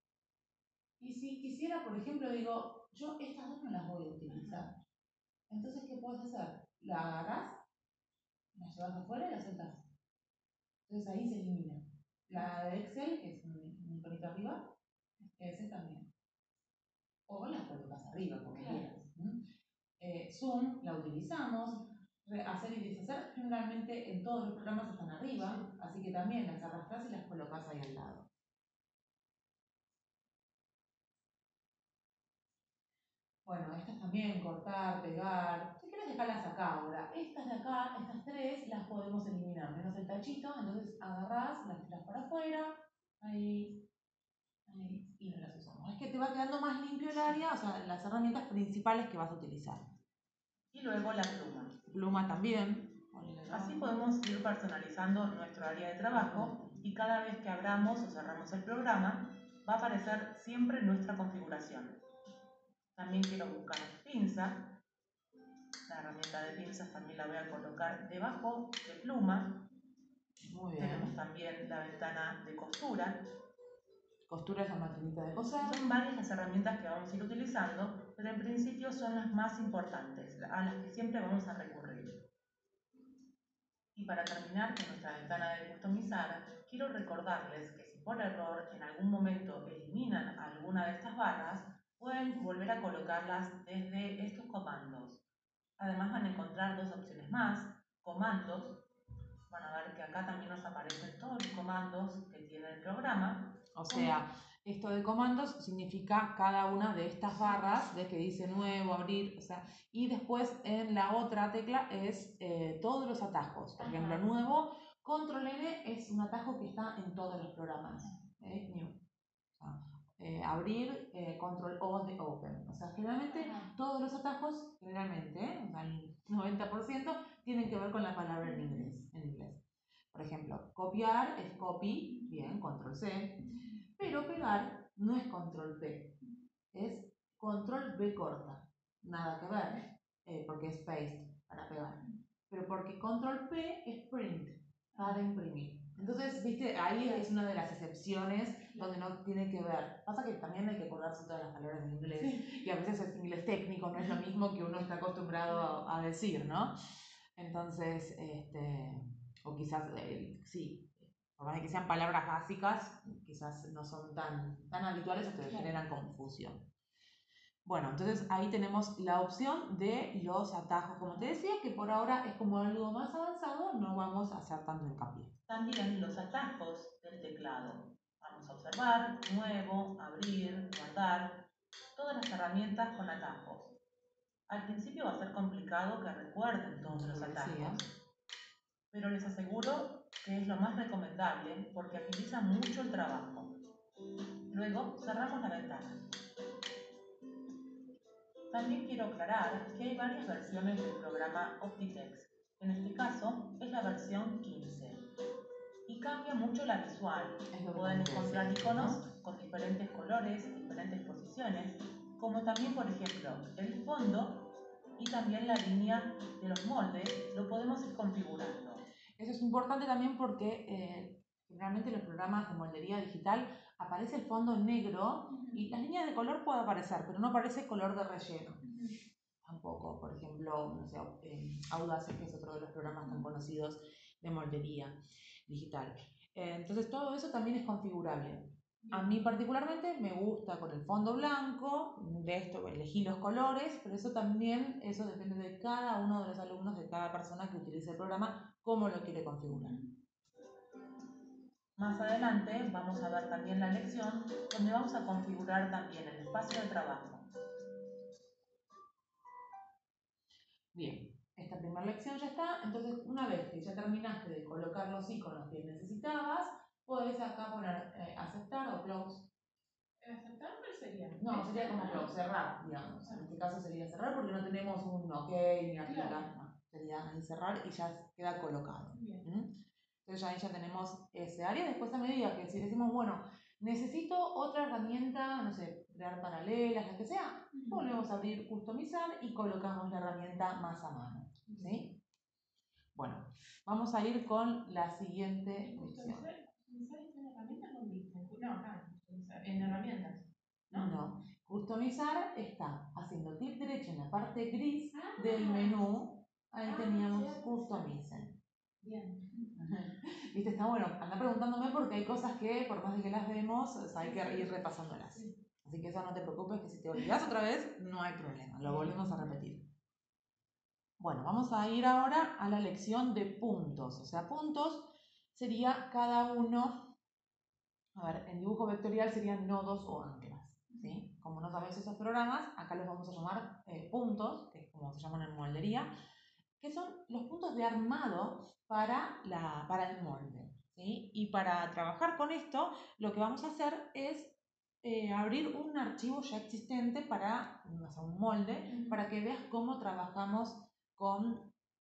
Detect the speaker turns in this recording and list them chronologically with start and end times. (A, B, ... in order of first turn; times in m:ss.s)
0:01.0-0:04.8 A
0:04.3-0:04.7 B
0:05.5-0:07.6 A
0:08.5-0:09.9 A
0:10.9-0:14.8 A
0:15.4-0:16.1 A
0:17.3-0:19.4 A
0:18.5-0:18.9 B
0:20.0-0:28.3 A
0:25.4-0:25.7 B
0:33.4-0:43.8 A
0:44.7-0:49.8 A
0:50.7-0:51.8 C
0:51.9-0:54.0 A
0:53.5-1:02.0 C
0:56.1-0:56.7 A
1:03.0-1:04.8 C
1:05.9-1:09.7 C
1:10.4-1:11.2 A
1:10.8-1:13.2 C
1:14.3-1:15.8 A
1:15.5-1:22.2 C
1:24.0-1:35.2 C
1:35.8-1:38.8 C
1:39.5-1:43.6 C
1:43.8-1:59.0 A
1:43.9-1:44.2 B
1:47.3-1:47.7 B
1:53.8-1:54.3 B
1:59.6-2:16.2 A
2:03.3-2:03.8 B
2:08.6-2:08.9 B
2:12.1-2:12.4 B
2:13.5-2:13.8 B
2:16.7-2:36.8 A
2:24.9-2:25.2 B
2:26.0-2:26.2 B
2:32.2-2:32.5 B
2:35.5-2:35.8 B
2:37.4-2:46.7 A
2:45.4-2:45.8 B
2:47.6-2:55.3 A
2:55.5-3:03.8 C
3:04.5-3:07.9 C
3:06.8-3:07.8 A
3:08.9-3:13.6 C
3:14.5-3:16.1 C
3:18.5-3:25.0 C
3:25.9-3:38.8 C
3:27.5-3:29.0 A
3:39.2-3:48.6 A
3:45.3-3:45.6 B
3:48.6-3:49.0 B
3:49.4-4:09.8 A
3:53.0-3:53.3 B
3:58.8-3:59.2 B
4:09.5-4:09.9 B
4:11.8-4:17.3 C
4:20.7-4:29.3 A
4:30.0-4:32.1 B
4:31.2-4:52.0 A
4:33.0-4:33.3 B
4:35.8-4:36.3 B
4:38.9-4:39.2 B
4:47.5-4:47.9 B
4:51.5-4:51.8 B
4:52.9-4:56.3 A
4:55.6-5:00.9 B
5:00.7-5:08.4 A
5:04.9-5:05.8 B
5:06.6-5:07.9 B
5:08.8-5:09.7 B
5:09.6-5:19.7 A
5:14.0-5:14.6 B
5:18.6-5:19.4 B
5:21.0-5:27.0 A
5:28.0-5:35.9 A
5:30.7-5:31.0 B
5:36.6-5:51.5 A
5:48.7-5:49.0 B